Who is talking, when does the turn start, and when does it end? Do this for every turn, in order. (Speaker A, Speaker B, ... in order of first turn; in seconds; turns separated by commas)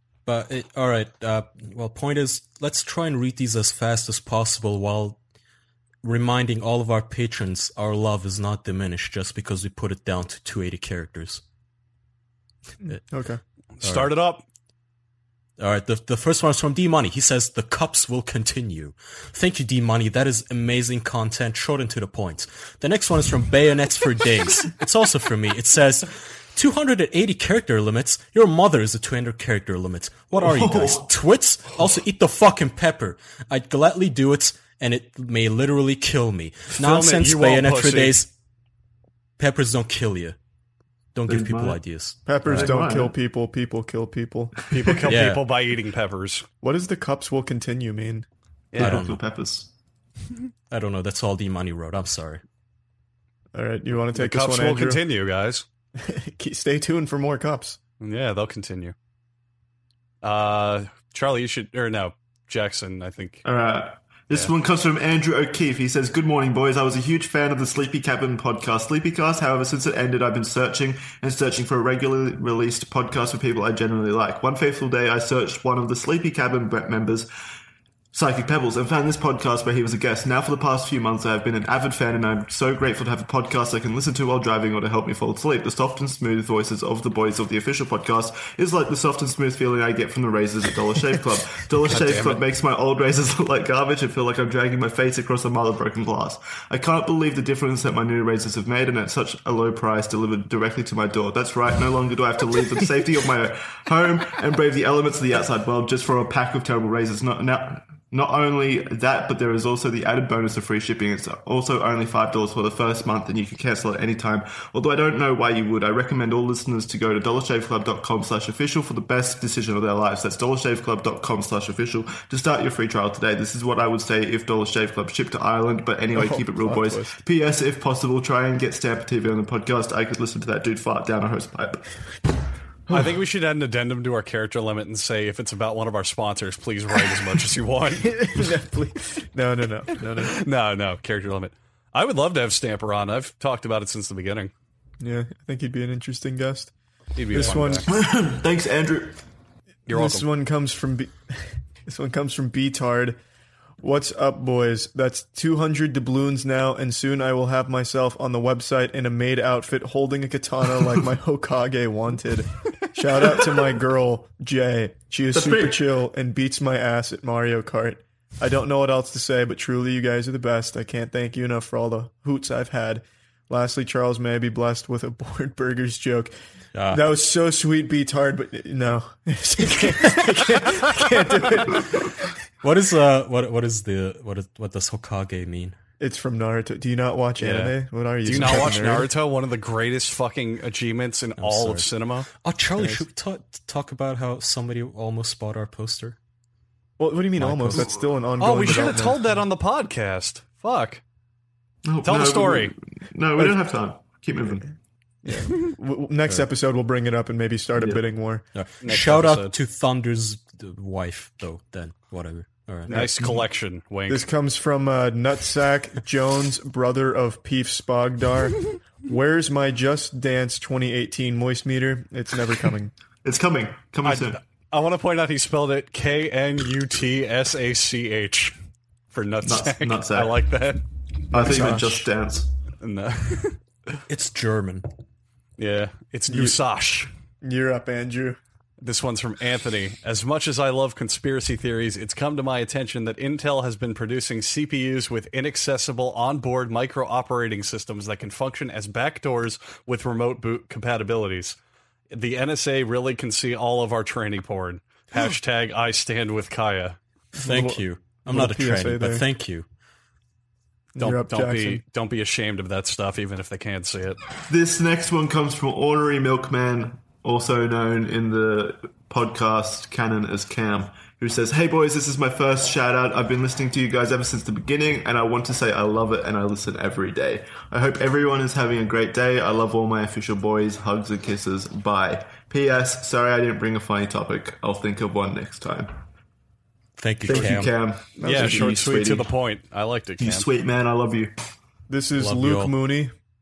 Speaker A: 0.3-5.2, Speaker A: 6.0-11.4, Speaker B: 12.8-13.4, Speaker C: 13.8-14.4, Speaker A: 13.8-14.1, Speaker A: 15.6-38.3, Speaker D: 30.4-31.1, Speaker C: 36.7-38.2, Speaker A: 39.4-40.4, Speaker A: 41.1-42.7, Speaker D: 41.3-41.8, Speaker B: 42.3-45.0, Speaker D: 42.5-43.1, Speaker C: 44.7-46.5, Speaker A: 45.1-45.5, Speaker B: 46.6-48.3, Speaker C: 48.7-49.0, Speaker D: 48.8-49.7, Speaker A: 48.8-49.2, Speaker A: 50.7-52.4, Speaker B: 53.5-55.0, Speaker C: 54.1-55.7, Speaker B: 56.0-57.8, Speaker C: 58.0-59.0, Speaker C: 60.2-63.4, Speaker D: 63.4-77.3, Speaker D: 78.1-131.9, Speaker C: 91.9-92.4, Speaker B: 126.1-127.2, Speaker C: 132.9-138.5, Speaker B: 138.0-140.3, Speaker C: 140.2-144.5, Speaker B: 145.0-146.7, Speaker C: 147.2-147.9, Speaker B: 147.3-147.9, Speaker D: 147.9-149.2, Speaker C: 149.9-150.3, Speaker B: 149.9-153.2, Speaker B: 153.8-176.3, Speaker D: 165.3-165.9, Speaker A: 176.7-177.0, Speaker B: 176.9-182.3, Speaker A: 182.6-185.8, Speaker B: 186.0-189.1, Speaker C: 187.4-192.3, Speaker A: 191.4-196.2, Speaker B: 192.8-193.0, Speaker B: 197.0-199.2, Speaker A: 197.4-197.9, Speaker C: 198.4-201.0, Speaker D: 201.8-204.7, Speaker C: 202.0-202.7, Speaker B: 205.2-208.4, Speaker D: 207.8-208.0, Speaker A: 208.5-213.1, Speaker C: 208.8-209.6, Speaker C: 212.9-214.3, Speaker B: 212.9-213.4, Speaker B: 214.1-222.9, Speaker D: 223.2-224.4, Speaker C: 224.0-228.6, Speaker C: 229.1-230.8, Speaker D: 229.4-230.4, Speaker D: 231.3-232.5, Speaker B: 231.3-232.1, Speaker C: 232.8-233.6, Speaker A: 234.1-234.9, Speaker C: 235.6-237.1, Speaker B: 236.3-236.6, Speaker B: 237.4-238.4, Speaker C: 238.8-251.6, Speaker C: 252.1-257.0, Speaker A: 257.4-259.7, Speaker B: 257.4-259.2, Speaker B: 261.0-261.8, Speaker C: 261.0-264.2, Speaker D: 264.5-286.0, Speaker A: 287.0-287.7, Speaker D: 287.2-289.3, Speaker C: 288.2-290.5, Speaker B: 288.2-288.9, Speaker D: 290.2-291.3, Speaker B: 291.9-293.1, Speaker A: 292.2-292.8